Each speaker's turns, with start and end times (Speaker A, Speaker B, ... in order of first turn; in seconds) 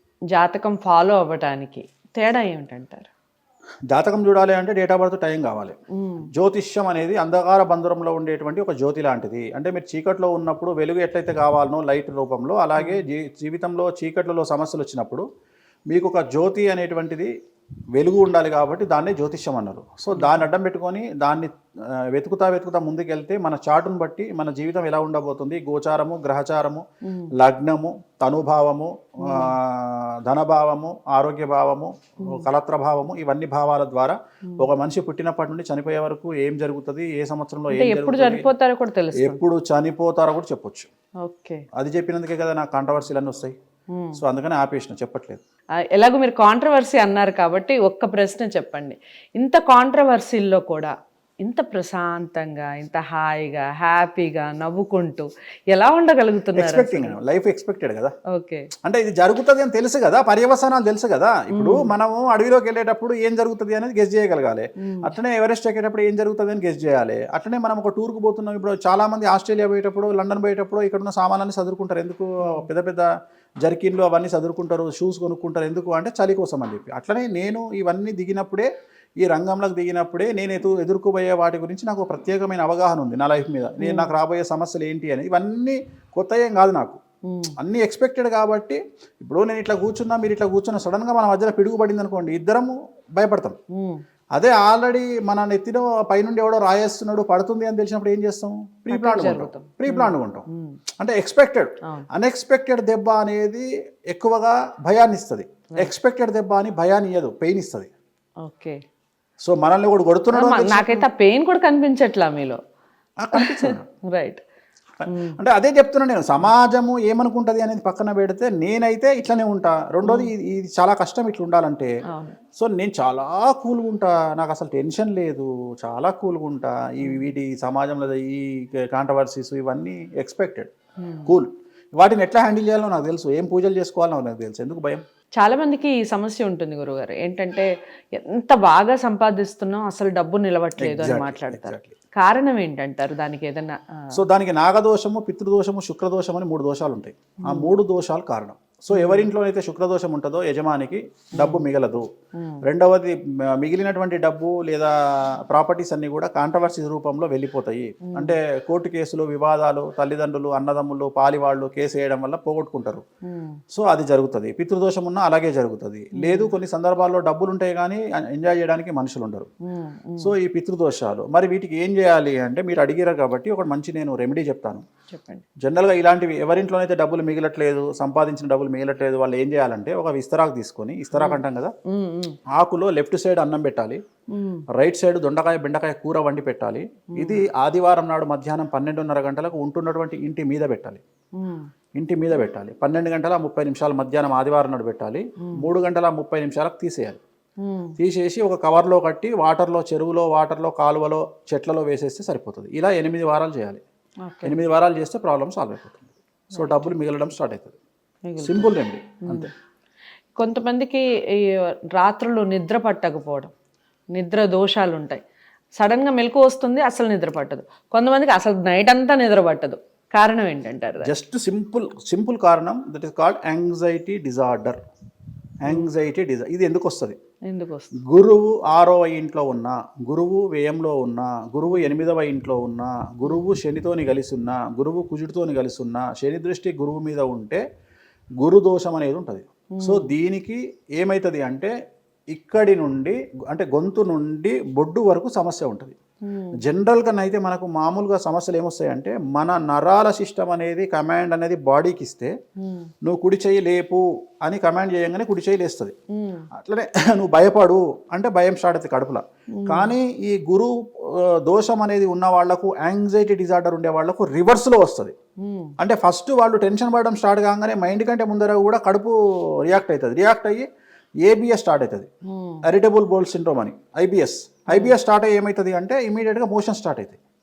Speaker A: 0.3-3.1, 6.0-6.3, 12.8-13.1, 20.1-20.4, 29.2-29.5, 37.7-39.4, 41.2-41.6, 43.9-44.2, 45.9-57.2, 58.3-58.7, 61.5-61.9, 64.8-65.1, 83.8-84.1, 87.3-87.5, 93.7-94.0, 98.9-100.8, 108.4-108.8, 110.3-112.6, 113.3-114.4, 115.1-115.4, 120.0-120.3, 122.1-122.4, 131.0-131.3, 135.4-144.1, 147.4-147.7, 148.9-149.3, 151.4-151.7, 152.4-152.6, 158.1-158.3, 163.3-163.6, 166.2-166.5, 169.7-170.3, 175.1-175.4, 181.1-182.4, 184.3-184.6, 187.2-187.4, 191.4-191.7, 197.6-197.9, 204.2-204.6, 206.5-206.9, 208.3-208.7, 210.3-213.5, 214.1-215.2, 215.8-221.1, 227.5-227.9, 231.7-231.9, 239.7-240.1, 246.2-246.6, 252.6-252.9, 256.1-256.5, 259.5-259.9, 265.4-265.7, 272.3-272.6
Speaker B: 3.9-5.8, 6.3-15.2, 15.9-17.3, 17.9-21.5, 22.1-26.8, 27.4-38.5, 39.1-40.9, 41.7-43.5, 44.1-45.4, 56.5-58.1, 58.8-73.1, 73.6-78.7, 79.2-87.0, 87.6-93.6, 94.3-100.5, 101.0-107.9, 109.4-111.1, 113.2-113.8, 115.0-121.9, 122.5-130.7, 131.3-135.0, 140.8-141.9, 144.1-152.1, 152.6-154.9, 155.5-163.0, 163.7-169.5, 170.2-174.8, 175.6-181.7, 182.5-184.0, 184.7-191.0, 192.0-197.2, 198.0-203.8, 204.4-207.8, 208.4-209.5, 221.0-224.8, 225.6-227.2, 228.1-237.6, 238.4-241.7, 242.3-246.0, 246.6-252.3, 253.0-255.9, 256.5-265.1, 265.8-269.1, 269.7-270.6, 271.2-272.1, 272.6-277.2